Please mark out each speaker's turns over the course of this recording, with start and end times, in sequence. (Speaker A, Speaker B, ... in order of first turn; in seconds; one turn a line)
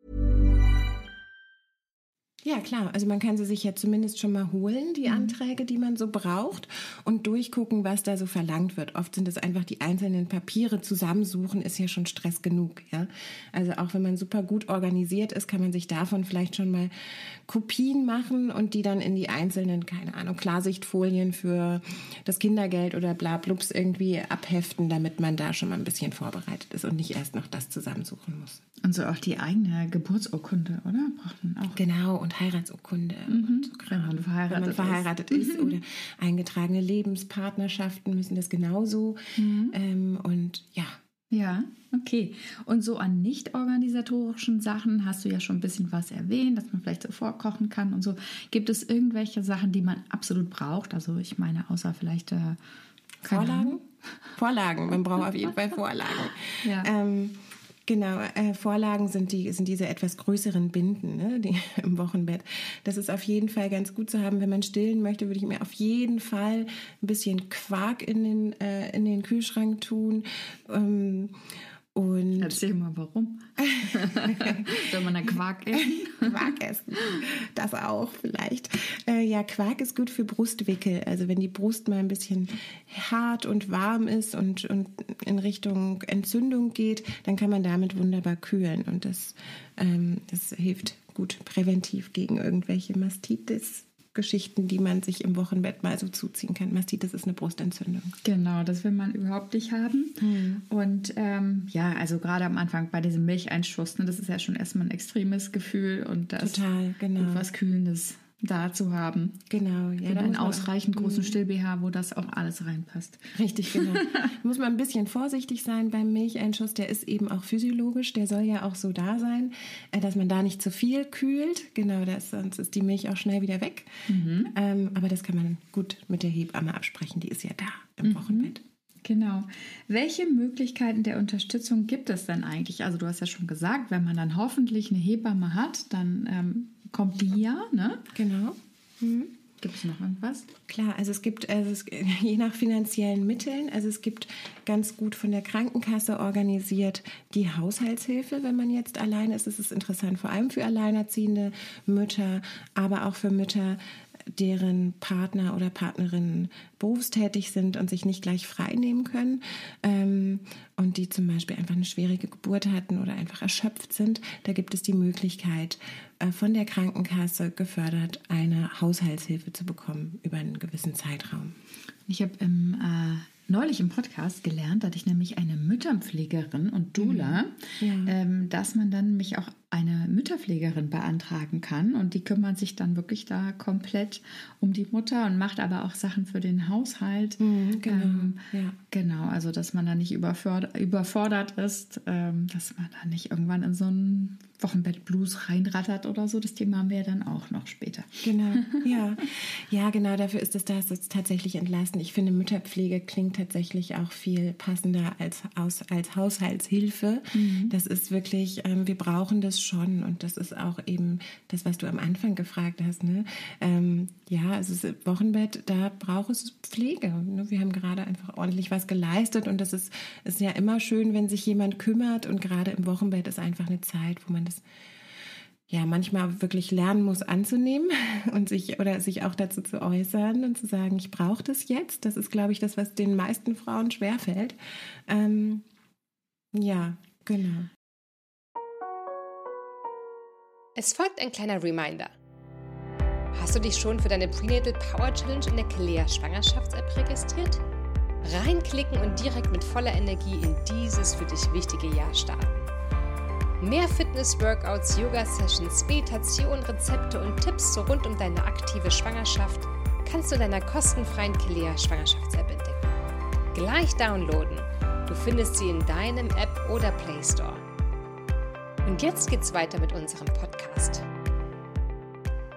Speaker A: 2.4-28.6
Speaker B: 5.0-5.3
Speaker B: 28.8-31.8
Speaker A: 31.7-41.0
Speaker B: 33.3-35.8
Speaker B: 39.4-39.8
Speaker B: 41.3-52.6
Speaker A: 53.2-53.8
Speaker B: 53.2-53.8
Speaker A: 54.4-71.4
Speaker B: 56.6-56.9
Speaker A: 72.0-72.6
Speaker B: 72.4-76.5
Speaker A: 73.6-74.8
Speaker A: 75.7-98.2
Speaker B: 98.2-106.6
Speaker A: 100.2-100.6
Speaker A: 106.4-107.5
Speaker B: 107.2-109.4
Speaker A: 109.5-111.4
Speaker B: 110.1-114.3
Speaker A: 113.3-128.6
Speaker B: 124.1-124.5
Speaker B: 128.1-128.5
Speaker B: 129.1-138.1
Speaker A: 138.1-139.3
Speaker B: 139.6-140.5
Speaker A: 140.7-153.8
Speaker A: 154.3-171.6
Speaker B: 172.1-188.4
Speaker A: 177.0-178.1
Speaker A: 187.4-188.8
Speaker B: 188.9-198.8
Speaker A: 198.2-224.6
Speaker B: 207.3-207.8
Speaker A: 225.7-235.7
Speaker A: 236.5-237.7
Speaker C: 240.8-242.1
Speaker C: 243.3-247.6
Speaker C: 248.2-252.7
Speaker C: 253.6-262.9
Speaker C: 263.5-267.6
Speaker C: 268.8-271.1